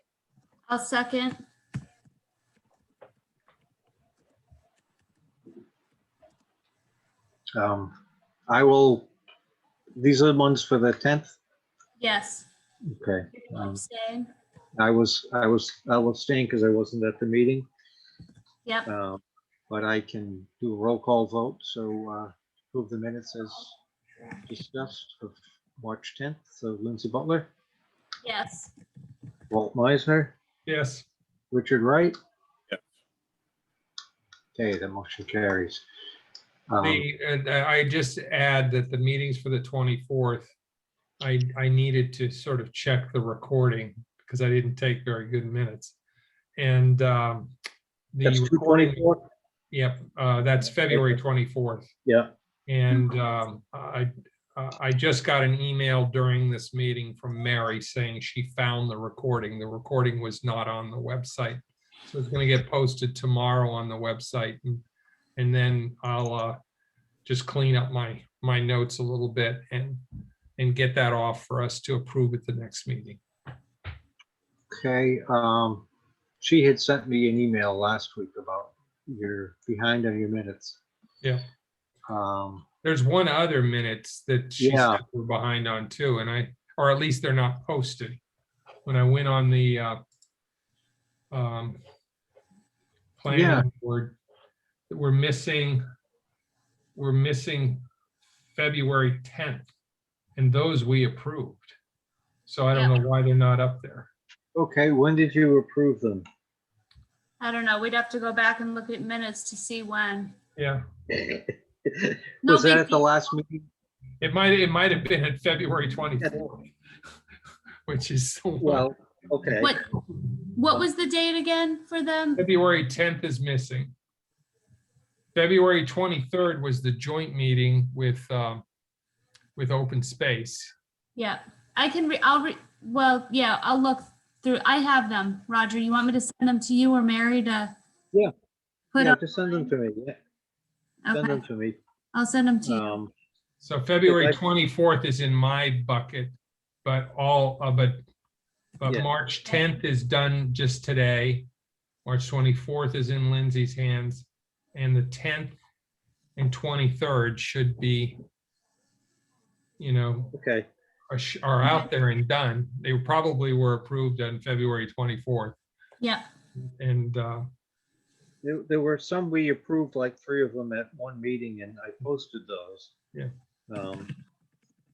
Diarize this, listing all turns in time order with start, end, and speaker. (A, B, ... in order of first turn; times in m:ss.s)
0:00.7-0:01.4 A
0:07.5-0:07.9 B
0:08.5-0:09.1 B
0:10.0-0:11.4 B
0:12.0-0:12.5 A
0:12.8-0:13.8 B
0:13.4-0:14.3 A
0:14.8-0:17.7 B
0:18.8-0:23.7 B
0:24.5-0:27.5 B
0:28.2-0:28.7 A
0:29.5-0:30.3 B
0:30.6-0:31.1 C
0:31.5-0:32.1 B
0:34.6-0:35.8 B
0:36.7-0:37.0 B
0:36.8-0:40.5 C
0:41.2-0:46.0 C
0:46.6-0:47.5 C
0:48.1-0:49.1 C
0:48.2-0:49.3 B
0:49.7-0:51.9 C
0:50.9-0:51.2 B
0:52.0-0:52.3 B
0:52.7-1:04.8 C
1:05.4-1:06.6 C
1:07.2-1:10.0 C
1:10.6-1:13.2 C
1:14.7-1:15.8 B
1:16.4-1:20.8 B
1:22.1-1:22.6 B
1:22.8-1:28.2 C
1:24.6-1:25.0 B
1:28.8-1:30.0 C
1:31.3-1:31.8 C
1:33.2-1:34.2 C
1:33.3-1:33.6 B
1:34.9-1:35.8 C
1:36.9-1:37.8 C
1:38.5-1:39.7 C
1:40.4-1:41.7 C
1:42.4-1:44.1 C
1:44.5-1:46.2 B
1:47.4-1:50.4 A
1:50.6-1:50.8 C
1:51.1-1:53.7 B
1:52.4-1:53.1 A
1:54.2-1:56.7 C
1:57.8-1:58.9 C
1:58.6-1:59.7 B
1:59.6-1:59.8 A
2:00.5-2:02.4 A
2:02.4-2:03.9 C
2:05.3-2:08.6 C
2:09.6-2:10.7 C
2:11.2-2:17.7 A
2:18.9-2:19.7 A
2:19.0-2:20.2 B
2:21.0-2:21.4 A
2:21.1-2:21.8 B
2:22.1-2:23.0 A
2:22.6-2:23.1 B
2:23.6-2:28.0 C
2:24.0-2:24.4 B
2:28.8-2:31.5 C
2:32.0-2:35.6 C
2:36.4-2:38.2 C
2:39.8-2:40.3 C
2:40.3-2:40.7 B
2:41.1-2:45.6 C
2:41.6-2:41.9 A
2:46.8-2:47.5 C
2:48.4-2:52.9 B
2:53.7-2:54.1 B